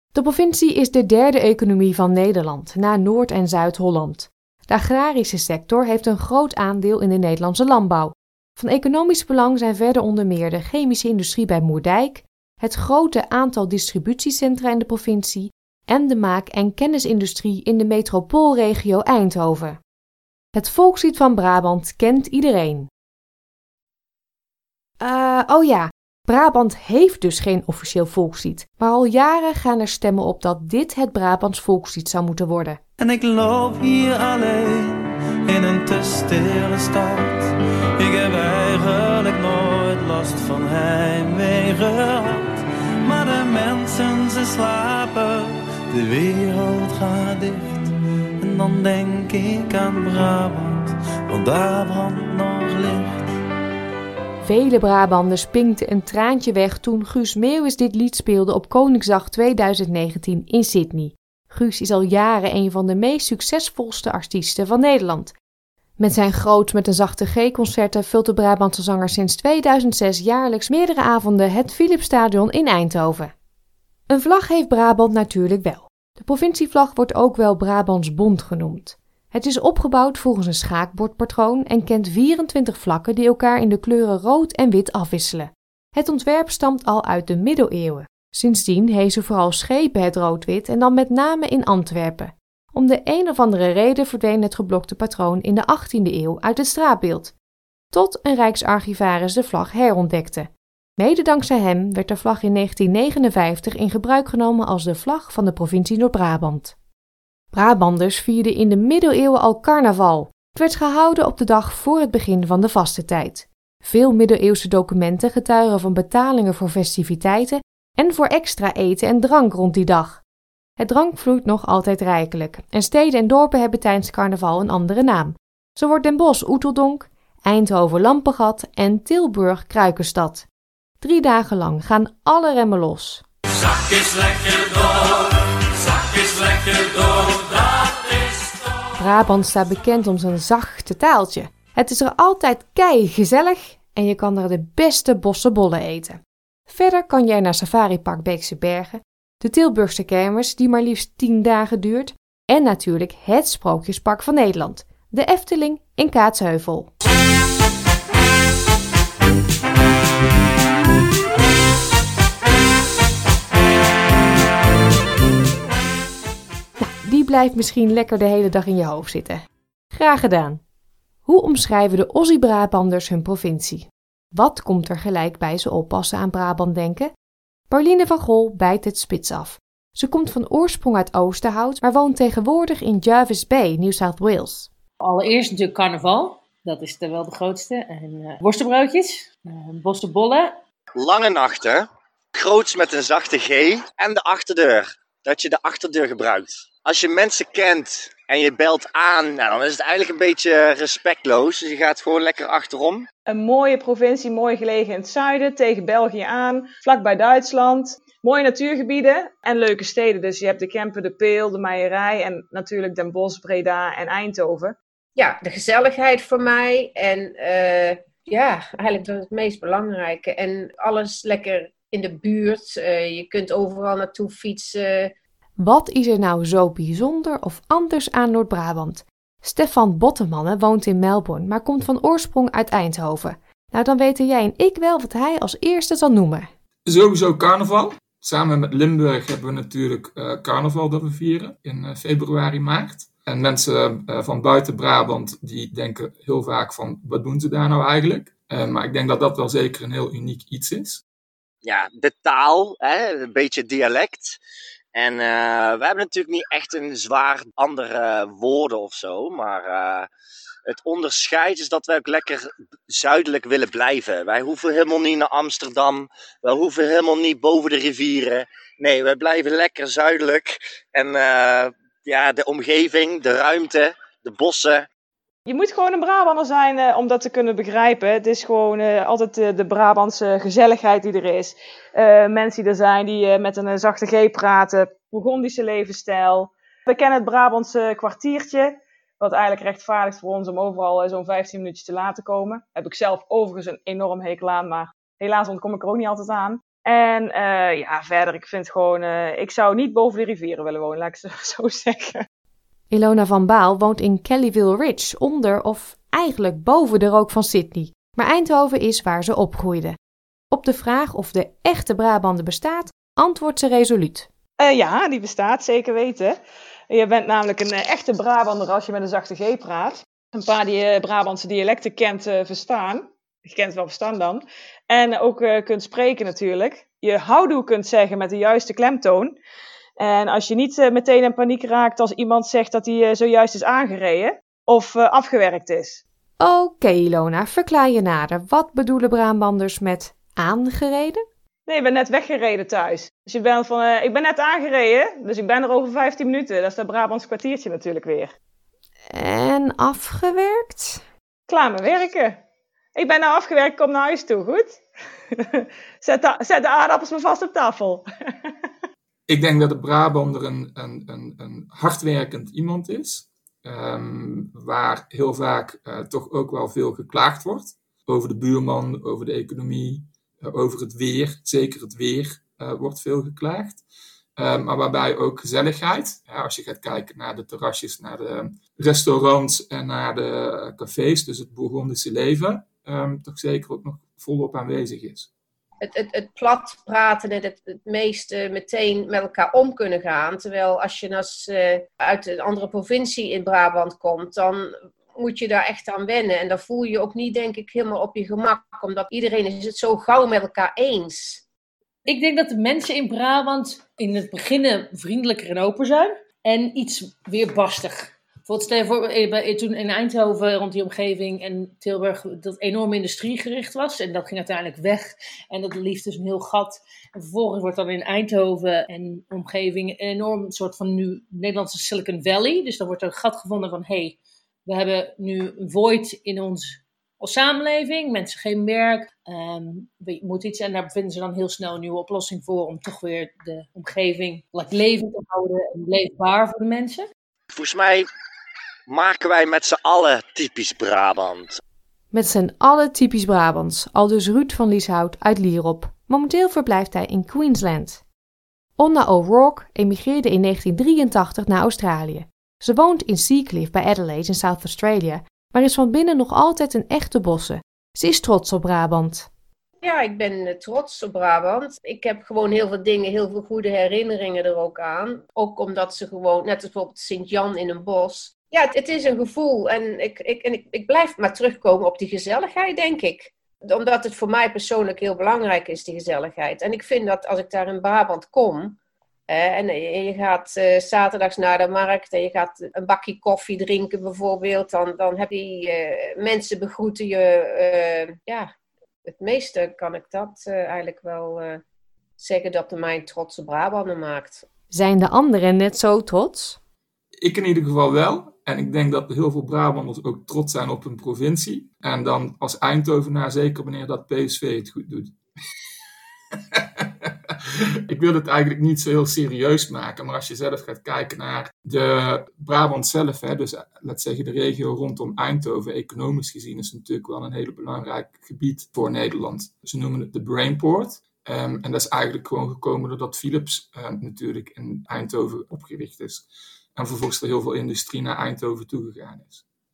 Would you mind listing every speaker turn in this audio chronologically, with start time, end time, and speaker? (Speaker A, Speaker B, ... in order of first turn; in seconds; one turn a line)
Speaker A: 0.1-19.8
Speaker A: 20.5-22.9
Speaker A: 25.0-32.8
Speaker B: 33.0-53.2
Speaker A: 54.4-65.3
Speaker A: 66.0-73.3
Speaker A: 74.1-97.3
Speaker A: 97.9-106.7
Speaker A: 107.5-120.2
Speaker A: 120.8-130.5
Speaker A: 131.0-133.2
Speaker C: 136.8-137.2
Speaker A: 138.9-156.9
Speaker A: 166.8-170.6
Speaker A: 171.2-177.1
Speaker A: 177.7-184.7
Speaker D: 185.0-190.6
Speaker C: 190.9-203.1
Speaker E: 203.3-214.8
Speaker F: 215.2-225.1
Speaker A: 225.6-236.5
Speaker G: 236.8-251.0
Speaker C: 251.6-254.4
Speaker C: 254.9-260.1
Speaker C: 260.7-274.9
Speaker E: 275.5-302.2
Speaker A: 302.9-310.0
Speaker A: 310.5-314.3
Speaker E: 314.6-316.4
Speaker E: 316.9-329.4
Speaker E: 330.0-336.0
Speaker A: 336.4-341.2
Speaker E: 341.7-348.3
Speaker A: 349.1-351.0
Speaker E: 351.5-352.4
Speaker E: 352.9-354.8
Speaker E: 355.3-358.0
Speaker G: 359.3-373.8
Speaker G: 374.4-385.3
Speaker F: 385.8-401.4
Speaker D: 402.1-437.1
Speaker C: 437.5-438.1
Speaker C: 438.9-441.6
Speaker A: 442.1-448.0
Speaker A: 448.8-459.3
Speaker F: 459.8-478.8
Speaker F: 479.3-488.5
Speaker F: 489.0-491.6
Speaker F: 492.2-494.4
Speaker A: 494.7-496.6
Speaker G: 497.2-505.1
Speaker G: 506.5-507.1
Speaker G: 507.9-529.4